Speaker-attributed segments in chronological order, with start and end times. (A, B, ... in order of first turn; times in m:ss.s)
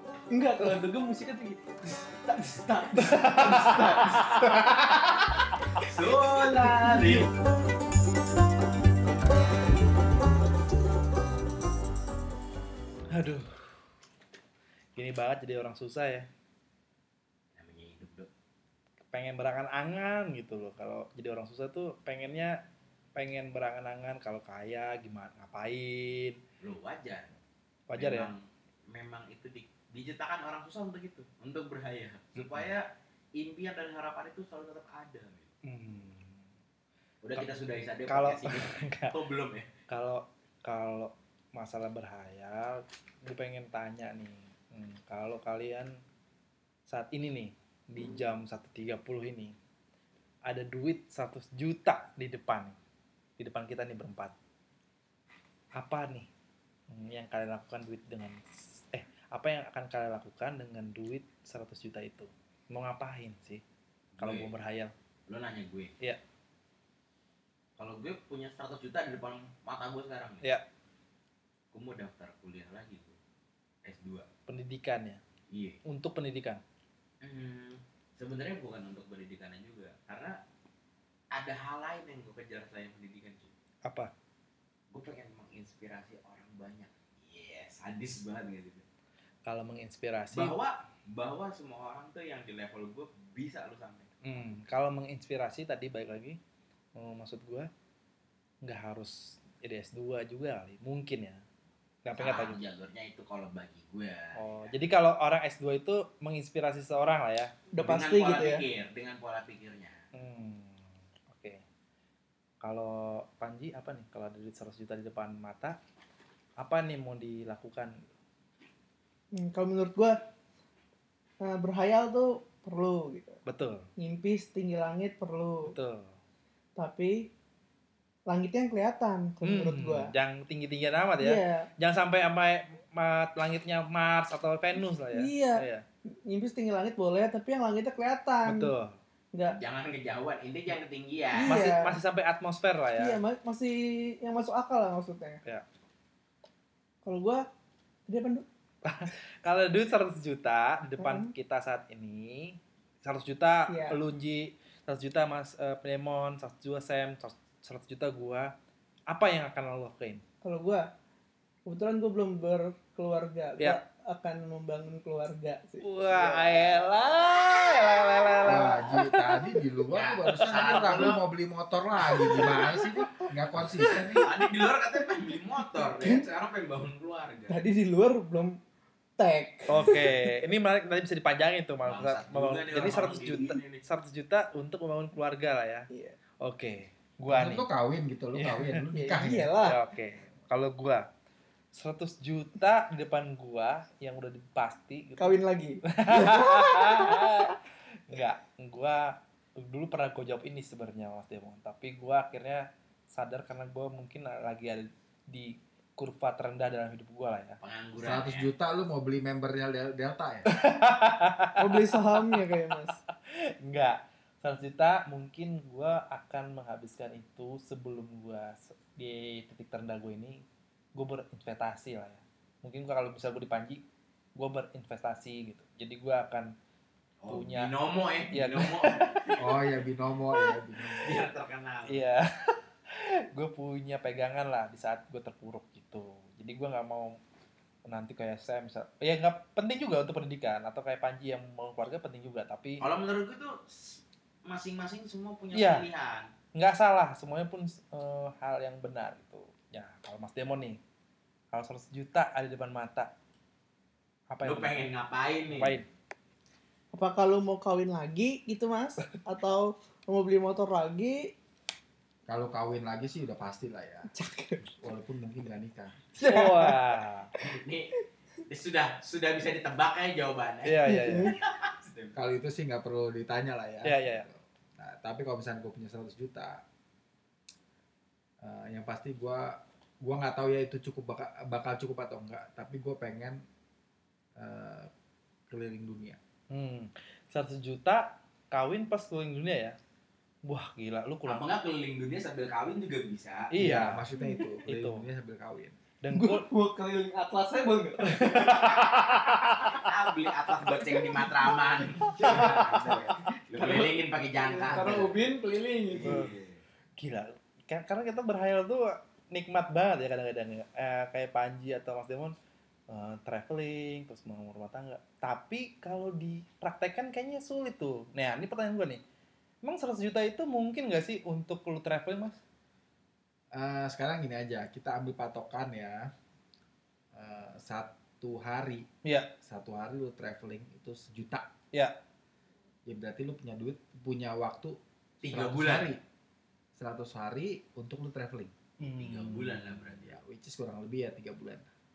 0:00.3-0:04.8 A
0:03.0-0:05.0 B
0:05.8-0:07.3 C
0:06.3-0:07.2 A
0:13.1-0:13.5 B
0:15.0-0:16.3 B
0:17.6-0:18.3 C
0:19.1-0:22.5 B
0:23.2-0:26.4 B
0:26.6-0:27.3 C
0:27.9-0:28.3 B
0:28.0-0:35.5 C
0:32.4-0:32.7 B
0:35.6-0:36.4 B
0:37.2-0:39.7 C
0:38.1-0:39.1 B
0:39.9-0:45.9 B
0:46.9-0:49.6 B
0:50.5-0:52.8 B
0:53.4-0:54.3 B
0:55.8-0:56.3 B
0:56.9-0:58.4 B
0:58.9-1:03.6 B
1:04.2-1:04.5 C
1:04.2-1:04.9 B
1:05.3-1:05.9 C
1:07.8-1:10.5 C
1:11.7-1:13.2 C
1:13.8-1:14.3 C
1:14.5-1:15.2 B
1:15.5-1:15.8 C
1:15.9-1:16.6 B
1:17.2-1:20.4 C
1:21.3-1:23.5 C
1:23.8-1:24.1 B
1:24.9-1:28.8 C
1:29.4-1:30.6 B
1:30.3-1:34.1 C
1:34.2-1:36.4 B
1:37.0-1:37.7 B
1:38.6-1:41.4 B
1:42.0-1:42.6 B
1:42.2-1:44.8 C
1:44.4-1:47.5 B
1:47.7-1:48.6 A
1:47.8-1:50.0 C
1:50.1-1:51.6 B
1:52.6-1:55.8 B
1:56.6-1:57.9 B
1:59.4-2:00.2 A
2:01.4-2:03.4 A
2:03.5-2:03.8 B
2:04.0-2:05.8 A
2:05.7-2:06.1 B
2:06.8-2:07.3 A
2:08.3-2:10.1 A
2:09.4-2:15.8 B
2:11.2-2:11.7 A
2:15.1-2:15.6 A
2:16.3-2:18.7 A
2:18.5-2:19.0 B
2:19.6-2:21.6 C
2:21.4-2:22.0 A
2:21.4-2:23.2 B
2:23.0-2:25.4 A
2:27.0-2:27.4 A
2:28.1-2:28.5 A
2:28.8-2:38.5 B
2:31.0-2:31.3 A
2:33.7-2:34.0 A
2:39.1-2:40.2 B
2:40.4-2:40.8 A
2:41.7-2:46.7 A
2:45.8-2:49.2 B
2:48.4-2:54.2 D
2:49.9-2:51.2 C
2:50.3-2:50.6 B
2:52.2-2:52.7 B
2:52.3-2:52.6 A
2:53.6-2:54.3 B
2:54.2-2:57.6 C
2:55.8-2:56.2 A
2:57.5-2:58.6 A
2:59.2-3:00.2 A
2:59.7-3:05.9 B
3:01.8-3:03.8 C
3:06.4-3:07.7 B
3:07.3-3:09.5 D
3:08.4-3:08.8 B
3:09.0-3:09.8 A
3:09.5-3:11.0 B
3:11.7-3:27.6 B
3:15.2-3:17.4 A
3:27.6-3:28.5 C
3:28.0-3:30.5 D
3:30.5-3:32.5 B
3:31.6-3:33.0 A
3:33.1-3:40.4 B
3:41.0-3:43.8 B
3:44.4-3:46.5 B
3:47.2-3:49.4 C
3:47.3-3:47.7 B
3:48.3-3:49.3 B
3:49.4-3:51.2 D
3:51.0-3:52.0 C
3:51.9-3:57.2 B
3:57.9-4:02.9 B
4:02.8-4:06.3 C
4:05.5-4:05.9 B
4:06.5-4:10.8 B
4:11.5-4:13.1 B
4:14.3-4:14.9 B
4:14.4-4:15.8 C
4:15.5-4:15.8 B
4:16.9-4:21.3 A
4:22.3-4:24.1 D
4:24.1-4:24.6 A
4:24.7-4:26.2 D
4:26.2-4:27.3 B
4:26.2-4:26.9 A
4:27.4-4:27.9 C
4:28.5-4:32.1 C
4:30.6-4:31.3 B
4:30.8-4:31.3 A
4:32.2-4:36.6 D
4:33.8-4:34.3 B
4:38.4-4:43.4 D
4:44.4-4:44.9 D
4:45.5-4:46.2 D
4:46.5-4:49.8 B
4:50.5-4:51.5 B
4:51.3-4:53.5 C
4:53.5-4:54.1 B
4:53.6-4:55.8 D
4:54.2-4:54.4 A
4:54.6-4:55.0 B
4:56.0-4:56.5 B
4:56.1-4:58.8 A
4:58.1-4:59.8 B
4:58.5-4:59.1 C
4:59.7-5:05.2 C
5:01.0-5:01.4 A
5:02.2-5:06.2 A
5:02.2-5:02.6 B
5:04.8-5:05.1 D
5:05.9-5:06.6 C
5:06.0-5:06.3 B
5:07.0-5:12.4 B
5:12.9-5:19.0 B
5:19.6-5:22.4 B
5:23.5-5:26.1 D
5:27.1-5:28.8 D
5:29.0-5:29.3 B
5:29.4-5:31.5 D
5:32.9-5:36.0 D
5:35.2-5:35.9 C
5:36.8-5:38.5 D
5:38.8-5:39.6 B
5:39.0-5:40.2 C
5:40.0-5:41.7 D